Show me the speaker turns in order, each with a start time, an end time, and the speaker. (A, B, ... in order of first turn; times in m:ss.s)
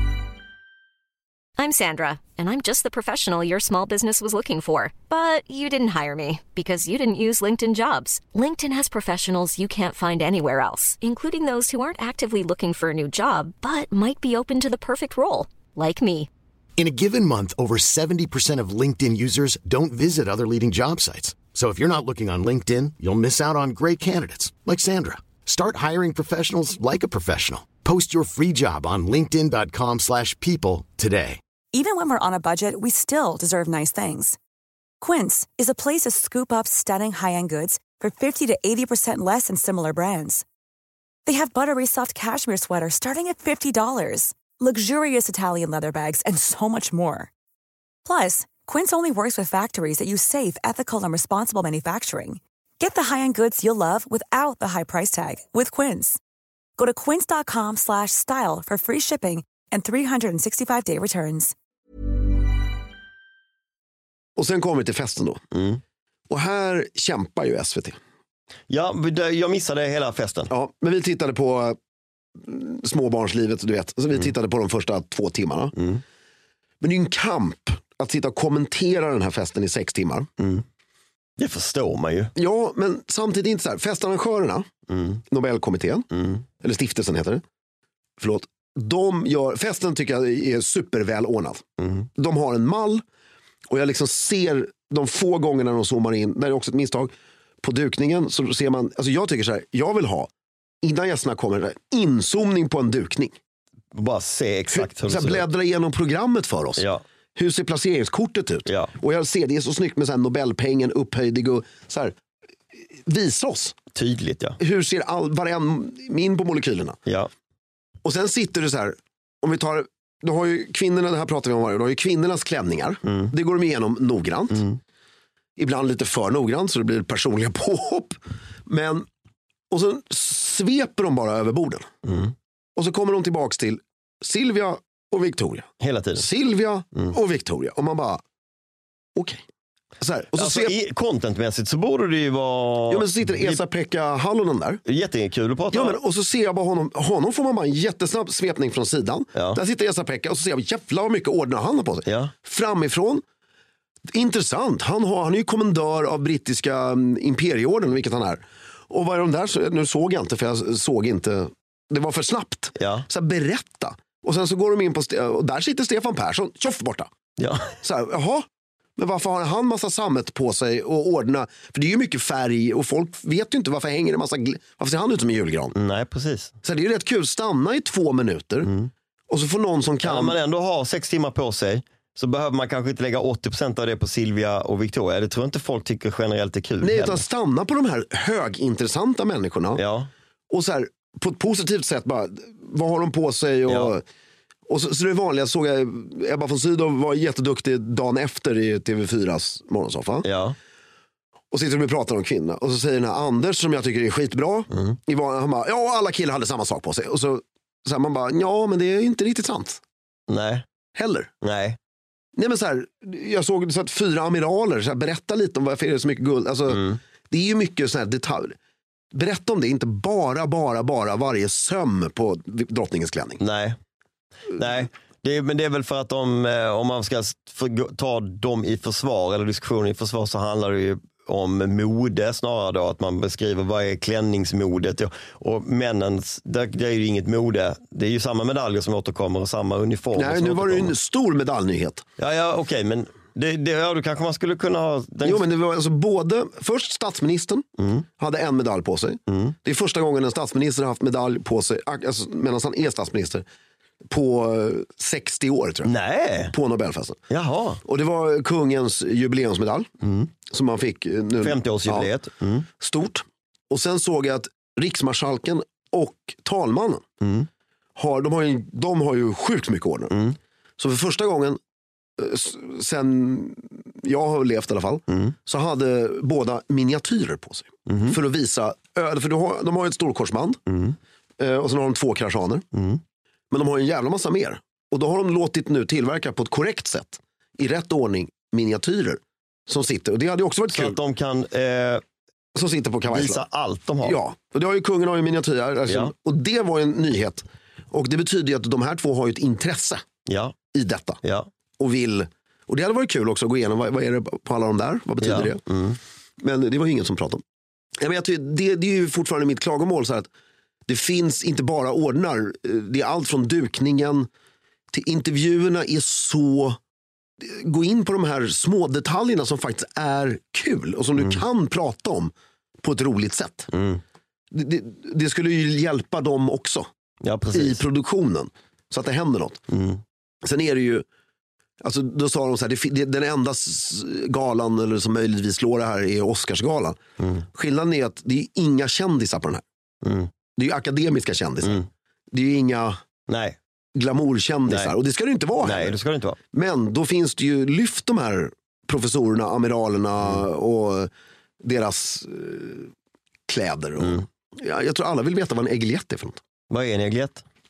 0:01.6-0:16.3 A
0:16.8-0:31.4 B
0:31.7-0:34.4 C
0:35.0-0:40.4 C
0:41.2-0:47.3 C
0:48.0-0:56.2 C
0:56.8-1:01.5 C
1:04.4-1:05.4 D
1:05.5-1:05.8 E
1:06.3-1:08.0 D
1:08.7-1:10.5 E
1:10.5-1:11.8 D
1:12.4-1:15.8 D
1:15.8-1:16.0 E
1:16.8-1:20.3 D
1:20.4-1:20.6 E
1:21.4-1:22.3 E
1:22.4-1:24.7 D
1:24.9-1:25.2 E
1:25.3-1:26.1 D
1:26.1-1:26.4 E
1:26.6-1:27.4 D
1:28.2-1:31.6 D
1:31.8-1:32.1 E
1:32.1-1:33.0 D
1:33.7-1:40.3 D
1:40.8-1:43.4 D
1:43.9-1:45.5 E
1:44.7-1:52.1 D
1:46.8-1:47.0 E
1:48.6-1:48.9 E
1:53.0-1:53.8 D
1:53.9-1:54.6 E
1:54.6-1:57.0 D
1:58.0-2:04.7 D
2:03.0-2:03.3 E
2:04.5-2:04.8 E
2:05.6-2:09.1 D
2:09.7-2:11.9 D
2:12.0-2:12.3 E
2:12.8-2:18.2 D
2:15.8-2:16.2 E
2:19.2-2:19.4 D
2:20.0-2:20.7 D
2:20.3-2:23.6 E
2:22.9-2:24.8 D
2:24.8-2:26.0 E
2:25.7-2:33.2 D
2:29.3-2:29.6 E
2:32.0-2:32.3 E
2:34.1-2:47.1 D
2:42.8-2:43.0 E
2:47.4-2:47.7 E
2:47.8-2:48.4 D
2:49.0-2:55.7 D
2:55.7-2:56.5 E
2:56.6-2:58.7 D
2:58.6-2:58.9 E
2:59.3-3:00.4 D
3:00.0-3:07.2 E
3:06.8-3:09.8 D
3:09.8-3:10.1 E
3:10.5-3:14.0 D
3:13.7-3:13.9 E
3:14.7-3:20.3 D
3:20.2-3:20.6 E
3:21.5-3:29.8 D
3:30.3-3:30.6 E
3:30.9-3:31.3 D
3:31.4-3:31.8 E
3:32.4-3:38.6 D
3:36.7-3:37.0 E
3:39.1-3:43.4 D
3:43.4-3:43.8 E
3:44.5-4:00.9 E
4:00.1-4:02.0 D
4:02.2-4:05.4 E
4:05.2-4:07.6 D
4:07.8-4:08.0 E
4:08.2-4:13.4 D
4:09.3-4:09.5 E
4:14.1-4:15.9 D
4:15.8-4:16.5 E
4:16.5-4:17.2 D
4:17.3-4:17.8 E
4:17.8-4:19.9 D
4:20.0-4:20.3 E
4:20.5-4:22.1 D
4:21.4-4:22.7 E
4:22.8-4:27.0 D
4:27.2-4:27.5 E
4:28.0-4:30.2 D
4:30.1-4:30.4 E
4:30.8-4:31.6 D
4:32.2-4:40.6 D
4:37.9-4:38.2 E
4:40.7-4:41.0 E
4:41.4-4:42.6 D
4:42.7-4:43.0 E
4:43.5-4:51.0 D
4:50.7-4:52.0 E
4:52.5-4:53.4 D
4:53.1-4:54.2 E
4:54.0-5:00.0 D
4:55.9-4:56.1 E
5:00.2-5:00.6 E
5:00.7-5:01.2 D
5:01.2-5:01.5 E
5:01.8-5:05.6 D
5:05.2-5:06.0 E
5:06.4-5:07.4 D
5:08.0-5:10.3 D
5:10.9-5:14.3 D
5:14.9-5:16.8 D
5:17.4-5:23.7 D
5:23.7-5:24.0 E
5:24.5-5:26.9 D
5:27.2-5:27.8 E
5:27.5-5:29.6 D
5:29.7-5:30.0 E
5:30.4-5:31.0 D
5:31.8-5:37.0 D
5:37.2-5:37.4 E
5:37.5-5:39.6 D
5:40.0-5:40.3 E
5:40.6-5:43.0 D
5:43.3-5:43.6 E
5:43.9-5:46.0 D
5:44.7-5:44.9 E
5:45.6-5:46.4 E
5:46.5-5:51.1 D
5:51.6-5:52.9 D
5:53.5-5:56.4 D
5:56.7-5:57.4 E